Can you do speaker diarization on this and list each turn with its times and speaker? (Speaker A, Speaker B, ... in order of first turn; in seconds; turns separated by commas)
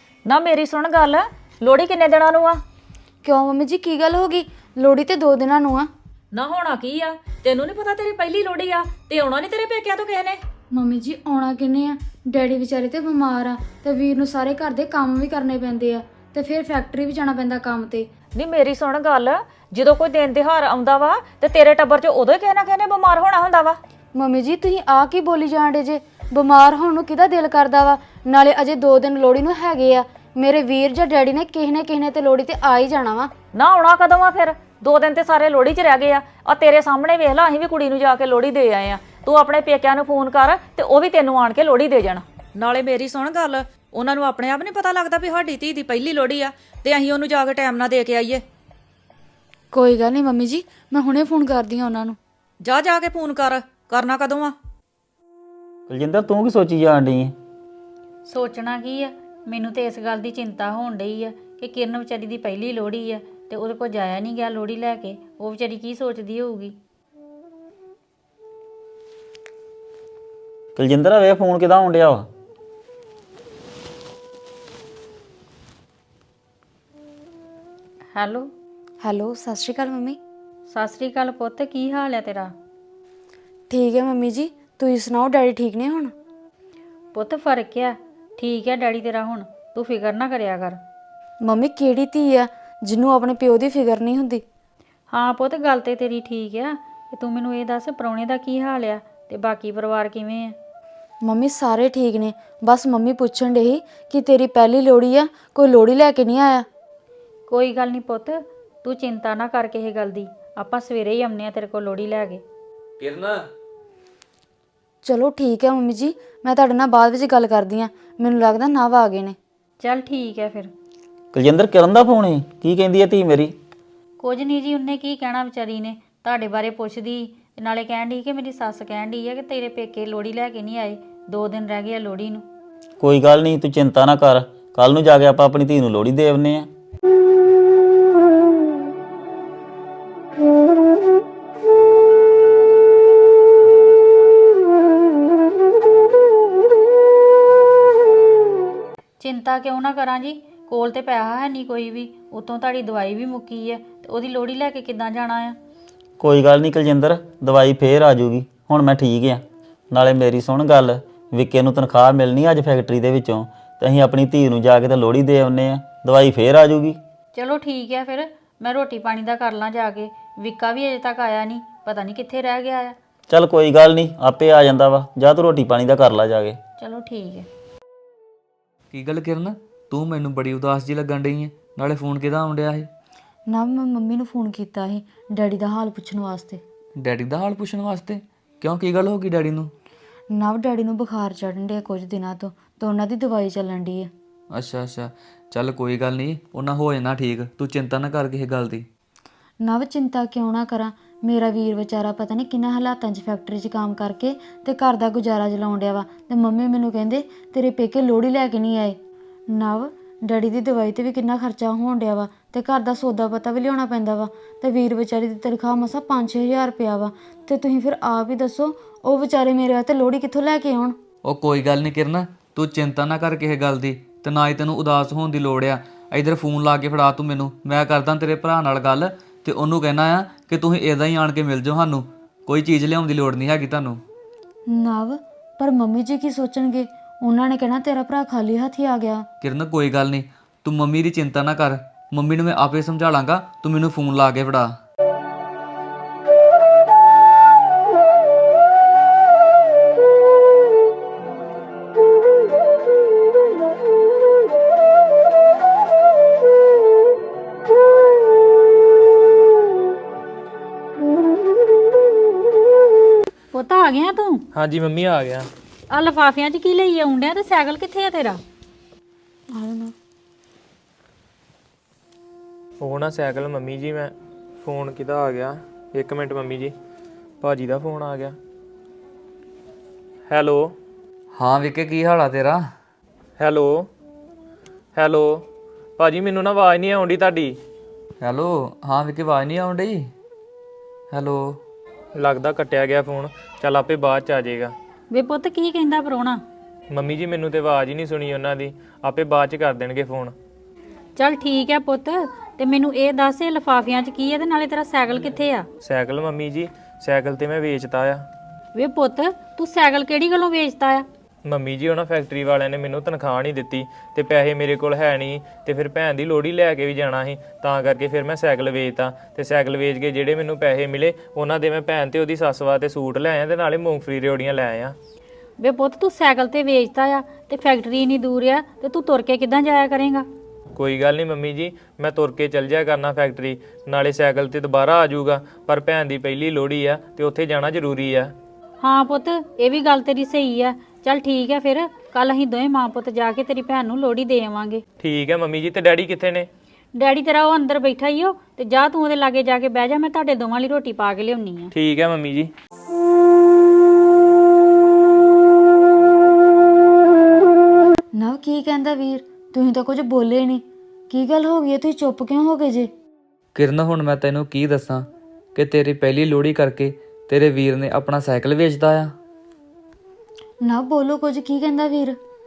Speaker A: 0.2-2.6, Speaker B: 3.2-5.9, Speaker A: 6.3-10.4, Speaker B: 10.7-18.1, Speaker A: 18.3-23.8, Speaker B: 24.1-33.3, Speaker A: 33.5-48.4, Speaker B: 49.7-52.2, Speaker A: 52.6-54.5, Speaker C: 55.9-57.3, Speaker D: 58.2-66.7, Speaker C: 70.8-72.2, Speaker D: 78.1-78.5, Speaker B: 79.0-80.2, Speaker D: 80.7-82.5, Speaker B: 83.7-86.1, Speaker D: 87.1-90.8, Speaker B: 91.4-94.4, Speaker D: 95.1-100.5, Speaker B: 101.2-106.7, Speaker D: 107.5-112.4, Speaker E: 113.0-113.5, Speaker B: 115.0-119.3, Speaker D: 119.8-120.7, Speaker C: 121.3-123.5, Speaker D: 124.2-132.4, Speaker C: 133.0-136.7, Speaker D: 149.2-155.6, Speaker C: 156.2-167.0, Speaker D: 167.3-172.9, Speaker C: 173.3-176.6, Speaker D: 176.8-177.5, Speaker E: 178.9-182.9, Speaker B: 183.5-186.6, Speaker E: 187.0-189.7, Speaker B: 190.3-194.1, Speaker E: 194.5-198.8, Speaker B: 199.6-209.0, Speaker B: 209.5-220.9, Speaker E: 221.2-234.0, Speaker B: 234.7-239.2, Speaker E: 239.4-244.7, Speaker D: 263.5-264.4, Speaker F: 264.5-265.5, Speaker D: 265.9-268.4, Speaker B: 269.5-269.9, Speaker F: 272.8-276.7, Speaker F: 277.4-278.4, Speaker F: 280.3-280.7, Speaker E: 281.3-282.6, Speaker F: 283.4-283.9, Speaker F: 284.9-285.4, Speaker F: 286.0-287.6, Speaker E: 288.2-290.1, Speaker E: 291.1-291.6, Speaker F: 292.1-294.7, Speaker D: 295.1-296.4, Speaker F: 296.9-300.3, Speaker D: 301.2-305.7, Speaker F: 305.8-308.2, Speaker D: 308.7-311.1, Speaker F: 311.4-324.9, Speaker D: 325.6-330.2, Speaker F: 330.8-338.3, Speaker D: 338.8-344.8, Speaker F: 345.0-346.5, Speaker D: 346.9-351.7, Speaker F: 351.7-352.5, Speaker B: 358.2-362.9, Speaker E: 363.5-369.1, Speaker B: 370.6-372.2